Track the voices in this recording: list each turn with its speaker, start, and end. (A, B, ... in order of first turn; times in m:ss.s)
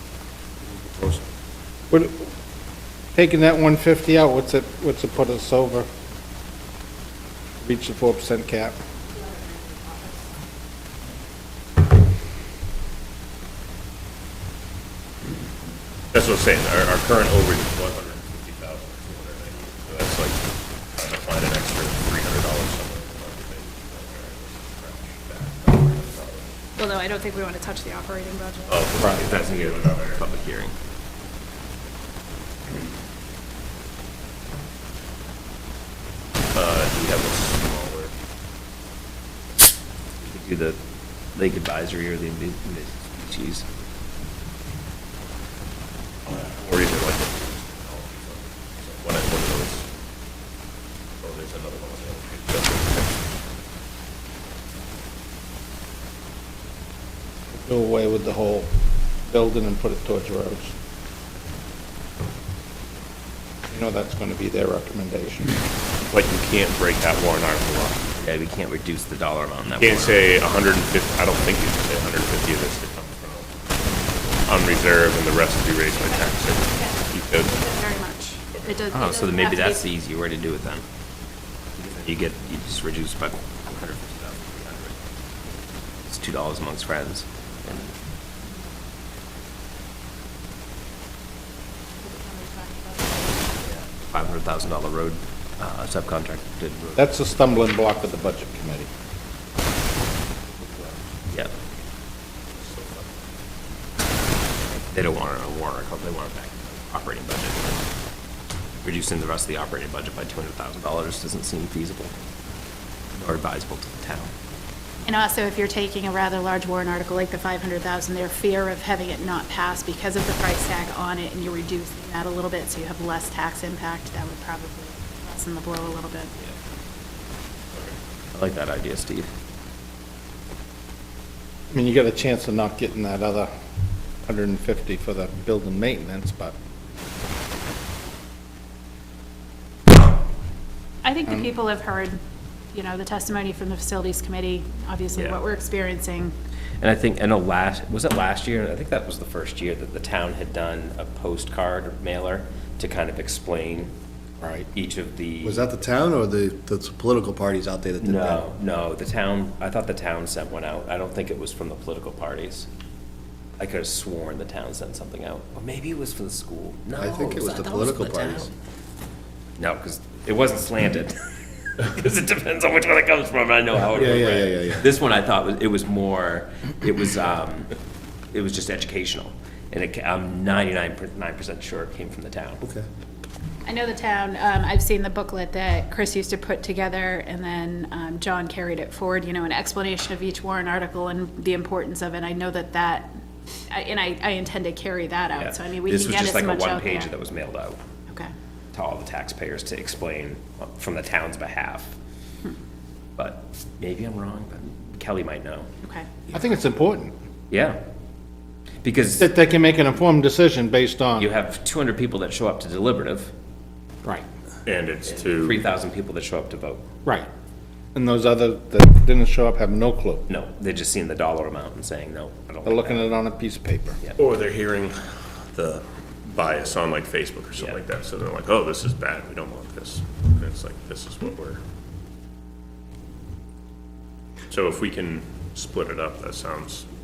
0:00.7-0:01.2 A
0:01.9-0:02.3 B
0:03.1-0:05.9 B
0:07.6-0:08.8 B
0:09.1-0:10.3 C
0:16.1-0:26.6 D
0:26.7-0:28.8 C
0:28.7-0:30.2 D
0:29.2-0:30.7 E
0:36.5-0:38.1 D
0:40.2-0:40.8 E
0:41.3-0:43.6 E
0:46.2-0:49.9 D
0:51.2-0:53.2 D
0:57.5-0:58.7 B
0:59.2-1:00.7 B
1:03.7-1:05.6 B
1:06.0-1:08.2 D
1:08.2-1:10.4 E
1:09.8-1:13.6 D
1:14.4-1:17.6 D
1:16.6-1:19.8 C
1:18.9-1:20.8 E
1:21.8-1:25.0 E
1:26.0-1:27.9 E
1:32.0-1:33.5 C
1:33.6-1:37.1 E
1:37.0-1:38.9 B
1:42.5-1:43.2 D
1:44.8-1:47.8 E
1:48.8-1:52.1 E
1:53.2-1:54.3 E
1:55.0-2:06.3 C
2:08.3-2:09.3 E
2:11.7-2:13.5 B
2:14.2-2:16.5 B
2:21.0-2:22.2 C
2:22.7-2:26.3 C
2:25.1-2:25.4 E
2:26.8-2:33.9 E
2:34.4-2:34.7 B
2:34.7-2:35.7 E
2:35.4-2:38.5 A
2:38.0-2:42.7 E
2:43.6-2:48.5 E
2:46.9-2:48.5 A
2:49.6-2:51.2 E
2:51.8-2:57.7 E
2:54.0-2:54.9 A
2:58.3-3:02.6 E
3:03.6-3:13.1 C
3:13.7-3:17.1 C
3:15.3-3:17.8 E
3:18.7-3:21.9 E
3:23.2-3:25.7 E
3:25.8-3:26.1 C
3:26.3-3:27.1 B
3:27.5-3:27.8 E
3:28.8-3:29.3 E
3:29.2-3:31.3 B
3:31.2-3:33.3 E
3:34.6-3:35.6 D
3:35.0-3:36.8 E
3:37.9-3:40.2 B
3:40.3-3:43.1 E
3:42.6-3:44.0 B
3:44.2-3:51.6 D
3:54.5-3:56.9 D